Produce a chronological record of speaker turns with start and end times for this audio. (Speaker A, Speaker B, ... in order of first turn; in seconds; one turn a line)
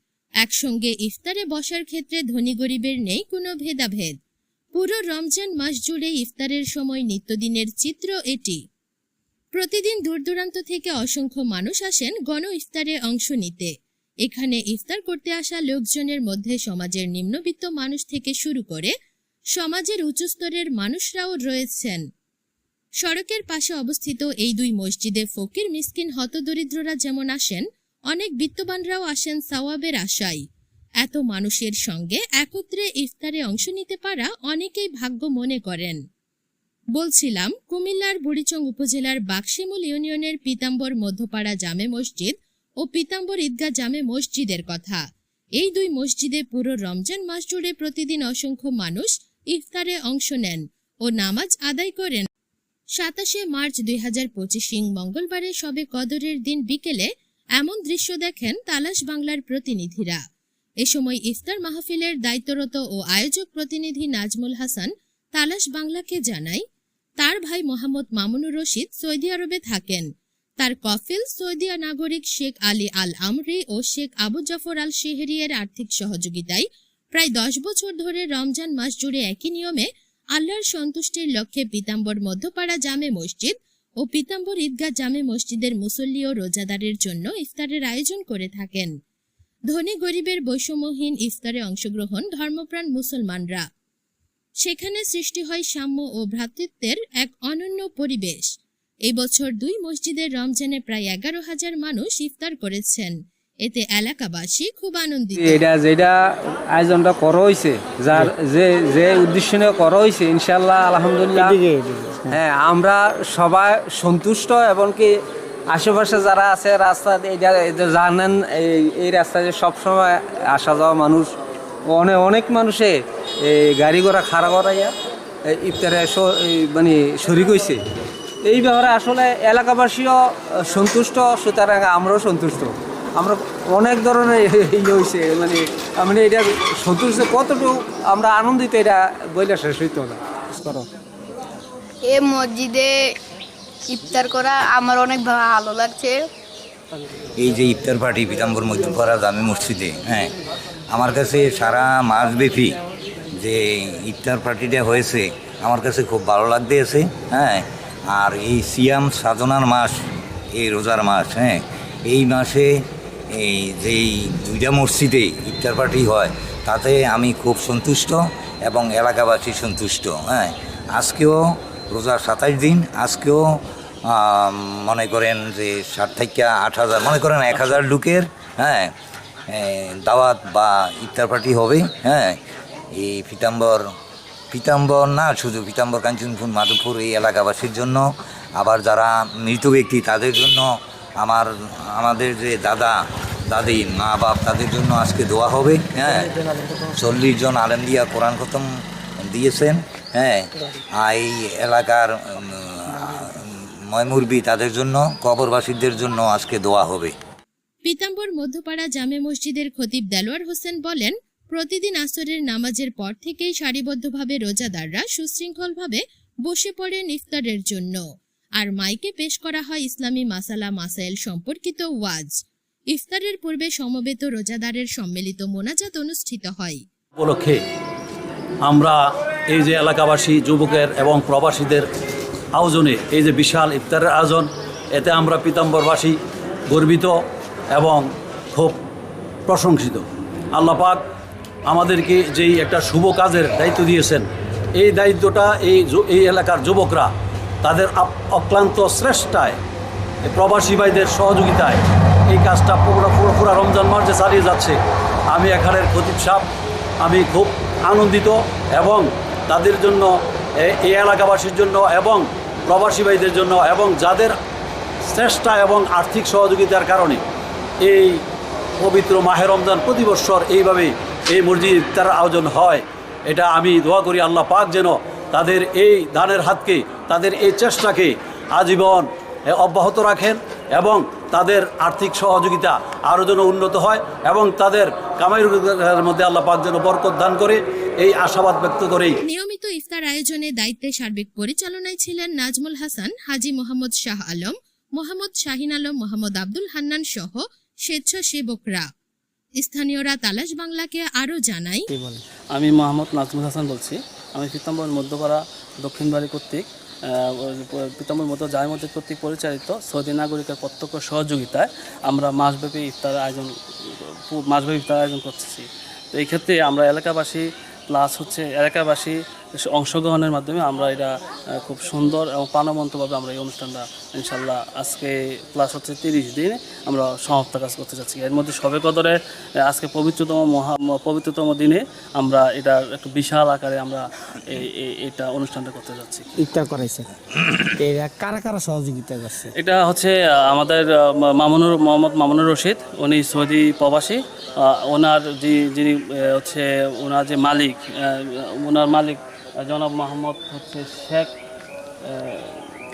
Speaker A: 0.4-4.1
Speaker A: 4.7-8.6
Speaker A: 9.5-13.7
Speaker A: 14.2-18.9
Speaker A: 19.6-22.0
Speaker A: 23.0-30.4
Speaker A: 31.0-36.0
Speaker A: 37.0-45.0
Speaker A: 45.6-52.3
Speaker A: 53.0-60.2
Speaker A: 60.8-66.6
Speaker A: 67.2-70.1
Speaker A: 70.6-88.9
Speaker A: 89.7-93.6
Speaker A: 94.6-98.5
Speaker A: 99.1-103.1
Speaker A: 103.6-105.6
Speaker B: 105.4-111.6
Speaker C: 111.8-112.2
Speaker B: 112.2-115.1
Speaker B: 115.7-121.4
Speaker B: 121.9-124.9
Speaker B: 125.5-127.8
Speaker B: 128.4-140.9
Speaker D: 142.0-143.2
Speaker D: 143.8-146.3
Speaker E: 147.4-150.3
Speaker E: 150.9-152.8
Speaker E: 153.4-160.0
Speaker E: 160.5-162.7
Speaker E: 163.3-173.4
Speaker E: 174.1-178.9
Speaker F: 177.5-177.8
Speaker E: 179.5-182.4
Speaker E: 182.9-183.8
Speaker E: 184.5-188.1
Speaker E: 188.6-198.7
Speaker E: 199.2-207.1
Speaker A: 207.8-218.0
Speaker A: 218.6-222.4
Speaker A: 222.9-226.8
Speaker G: 227.2-227.6
Speaker G: 228.6-231.8
Speaker G: 232.6-236.2
Speaker G: 236.7-237.2
Speaker G: 237.7-238.8
Speaker G: 239.5-241.0
Speaker G: 241.7-244.2
Speaker G: 244.8-247.1
Speaker G: 247.6-249.6
Speaker G: 250.2-254.8
Speaker G: 255.3-256.5
Speaker G: 257.0-264.3
Speaker G: 265.1-267.2
Speaker G: 267.8-268.2
Speaker G: 268.8-289.1
Speaker A: 289.2-298.9
Speaker A: 299.6-301.9
Speaker F: 302.5-336.3
Speaker C: 336.4-337.0
Speaker C: 337.8-339.5
Speaker F: 339.6-351.3
Speaker F: 352.0-352.7